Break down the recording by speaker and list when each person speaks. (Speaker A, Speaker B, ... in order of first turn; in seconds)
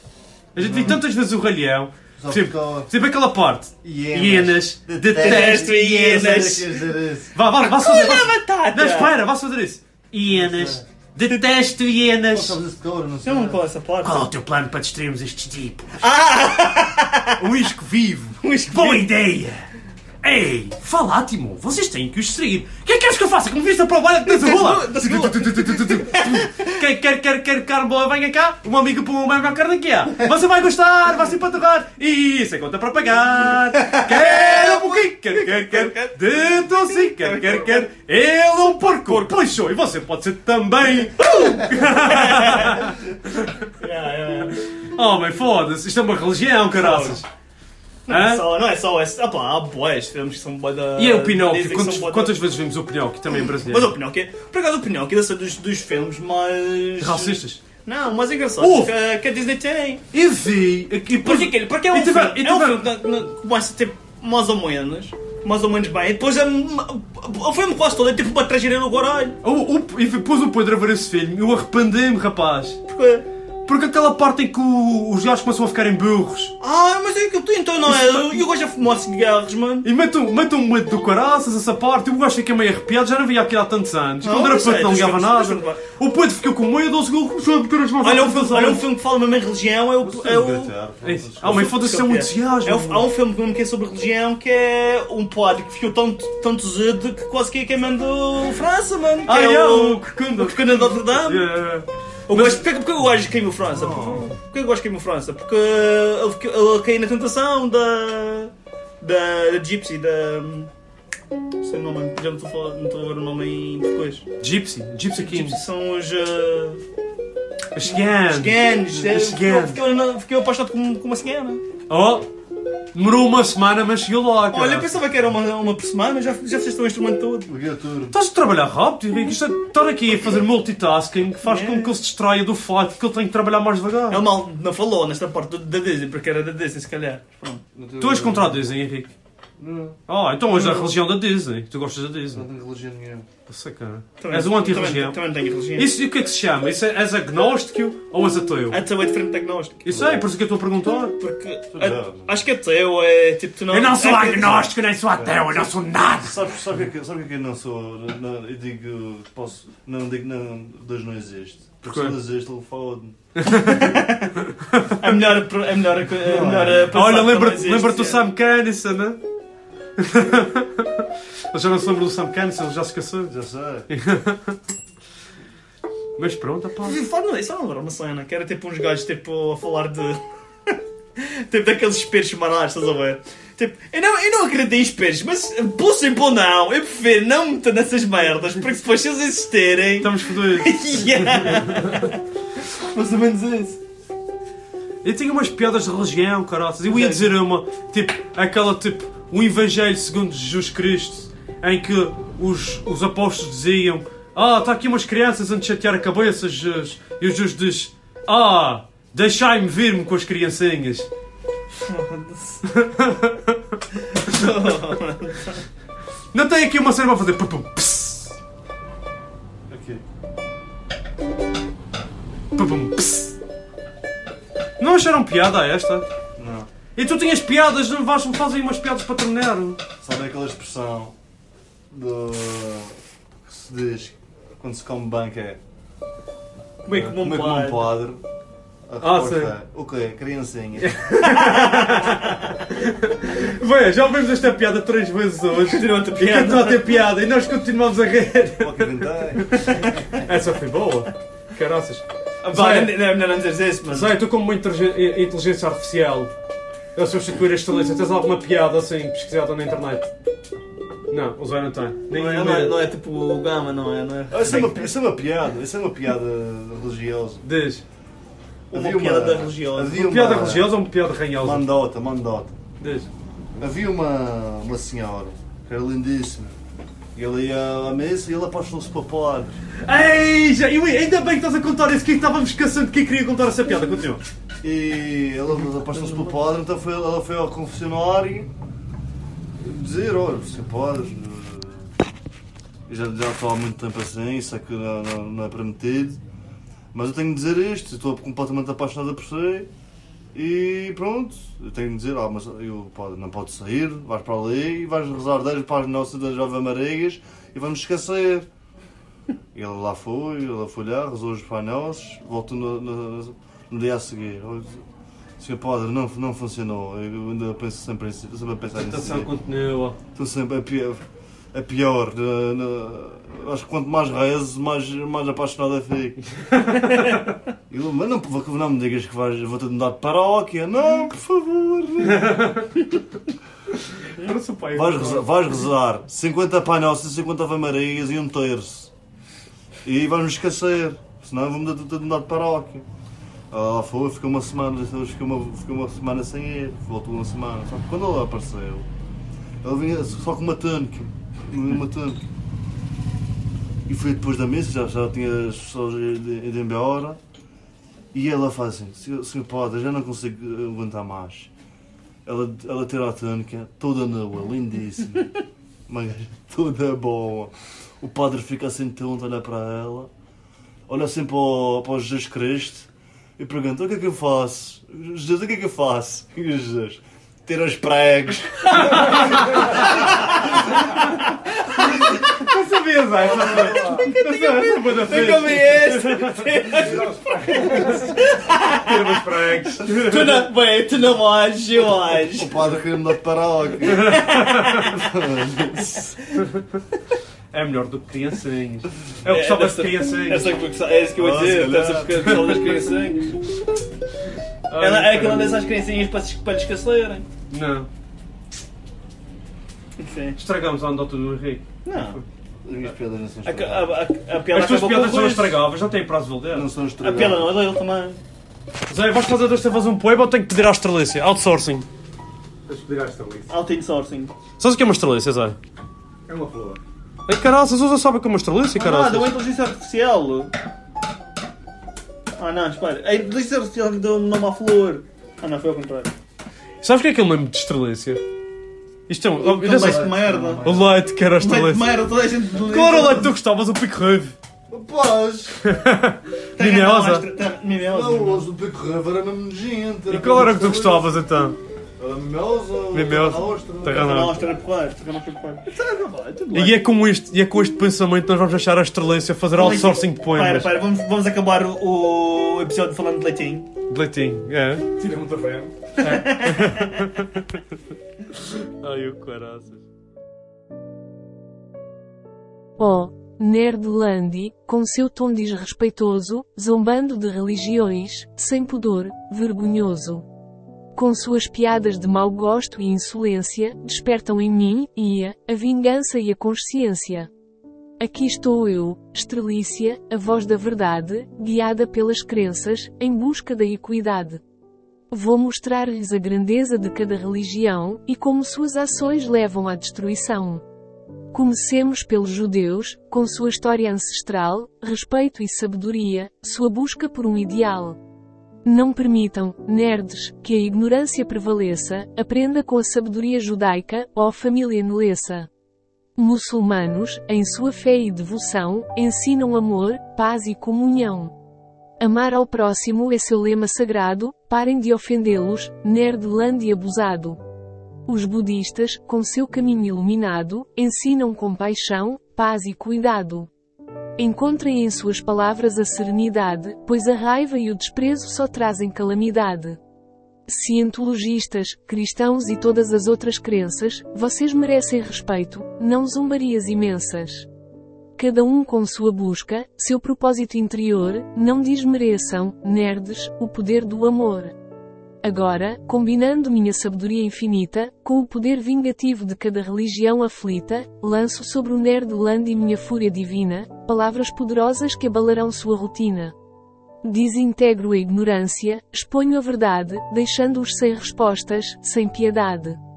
Speaker A: 0.5-6.5, 7.3-12.6, 14.0-16.0, 17.4-19.6, 20.2-43.6, 44.8-47.2, 48.1-48.4, 51.0-53.9, 57.0-57.6, 58.6-58.9, 60.1-62.9, 69.4-72.8, 73.7-76.5, 79.8-88.8, 91.0-93.1, 99.2-102.6, 114.4-115.6, 117.7-119.8, 121.9-122.2, 122.9-124.9, 128.1-134.2, 138.0-139.1, 140.1-142.5, 143.5-145.2, 145.8-148.8, 149.8-151.2, 153.7-156.4, 161.8-162.1, 163.4-164.0, 164.7-165.1, 166.9-169.2, 170.0-173.3, 173.9-174.6, 176.2-177.0, 190.0-192.0, 195.0-211.1, 212.7-213.6, 216.3-218.3, 222.5-223.4, 224.8-226.0, 226.9-229.8, 239.0-239.5, 240.8-248.9, 250.1-253.0, 253.9-256.3, 256.9-260.1, 261.1-262.7, 267.4-267.8, 269.9-271.6, 272.8-273.1, 279.8-284.2, 318.8-320.0, 326.5-327.2, 332.1-332.7, 334.0-335.3, 379.0-379.3, 381.9-386.6, 388.6-390.4, 393.9-394.9, 397.5-400.5, 401.8-402.8, 404.7-405.6, 407.5-407.9, 410.4-412.2, 414.5-416.7, 418.9-421.9, 424.6-425.6, 427.2-429.4, 436.8-438.2, 439.1-441.9, 442.5-444.3, 445.6-447.2, 450.1-451.6, 452.9-454.3, 456.5-460.7, 463.9-464.9, 466.0-467.6, 468.4-469.8
Speaker B: 0.6-1.0, 2.2-2.9, 3.8-7.3, 10.3-10.8, 12.3-13.6, 90.0-91.7, 103.7-104.3, 127.5-128.2, 137.7-138.6, 139.6-140.0, 142.3-143.3, 149.9-150.3, 151.7-152.4, 155.2-155.6, 156.2-163.2, 166.2-166.9, 173.3-173.9, 219.7-220.0, 226.4-226.7, 230.0-231.1, 231.9-235.6, 236.9-238.2, 238.9-240.9, 248.6-249.5, 264.3-267.4, 268.7-270.7, 271.4-272.6, 273.6-276.6, 277.1-279.6, 284.6-288.5, 289.6-291.9, 292.9-296.2, 296.9-299.7, 300.3-308.5, 309.5-314.8, 315.4-319.3, 320.1-326.2, 327.7-332.4, 334.7-338.9, 339.8-342.8, 343.5-348.9, 349.6-352.2, 353.9-357.2, 358.1-361.5, 362.2-365.3, 365.9-370.1, 370.9-379.1, 392.4-394.2, 394.9-396.1, 401.1-402.4, 412.6-413.9, 416.5-417.5, 439.8-440.9, 444.7-445.6, 447.8-451.1, 452.0-454.2
Speaker C: 5.2-6.8, 7.6-9.1, 11.2-11.4, 13.2-14.3, 16.0-17.4, 18.4-19.1, 24.2-26.8, 33.8-37.9, 39.0-39.4, 41.2-43.1, 43.8-44.6, 46.7-47.2, 48.1-52.4, 53.5-60.0, 61.2-69.4, 72.9-73.2, 76.6-79.9, 84.2-85.8, 88.0-90.7, 91.4-101.5, 102.3-110.7, 111.6-114.2, 115.1-116.8, 117.9-121.6, 124.5-127.5, 131.4-132.0, 134.1-137.6, 140.5-140.9, 144.2-145.9, 148.7-149.8, 151.2-154.7, 163.4-164.4, 165.0-168.2, 176.8-193.8, 196.9-197.3, 211.8-212.6, 214.0-215.6, 236.8-237.9, 241.2-242.5, 245.6-246.9, 249.5-250.2, 252.4-254.1, 262.1-264.9, 268.7-270.0, 285.8-286.3, 380.0-380.6, 381.7-382.2, 383.4-389.0, 389.9-392.5, 393.9-395.1, 399.3-403.4, 404.8-407.2, 410.0-410.4, 411.8-412.2, 413.4-415.6, 417.0-418.2, 423.5-424.3, 428.7-430.5, 432.4-436.1, 439.4-440.7, 441.3-443.3, 446.6-448.4, 453.9-456.8, 459.5-463.7, 466.0-467.0
Speaker D: 386.7-388.1, 422.7-423.5, 426.3-426.8, 465.0-465.7
Speaker E: 472.8-480.2, 480.9-487.3, 488.0-494.4, 495.1-500.6, 501.3-508.0, 508.6-515.5, 516.1-521.3, 522.0-527.4, 528.0-533.5, 534.2-539.8, 540.5-547.5, 548.1-554.5, 555.2-566.3, 567.0-572.8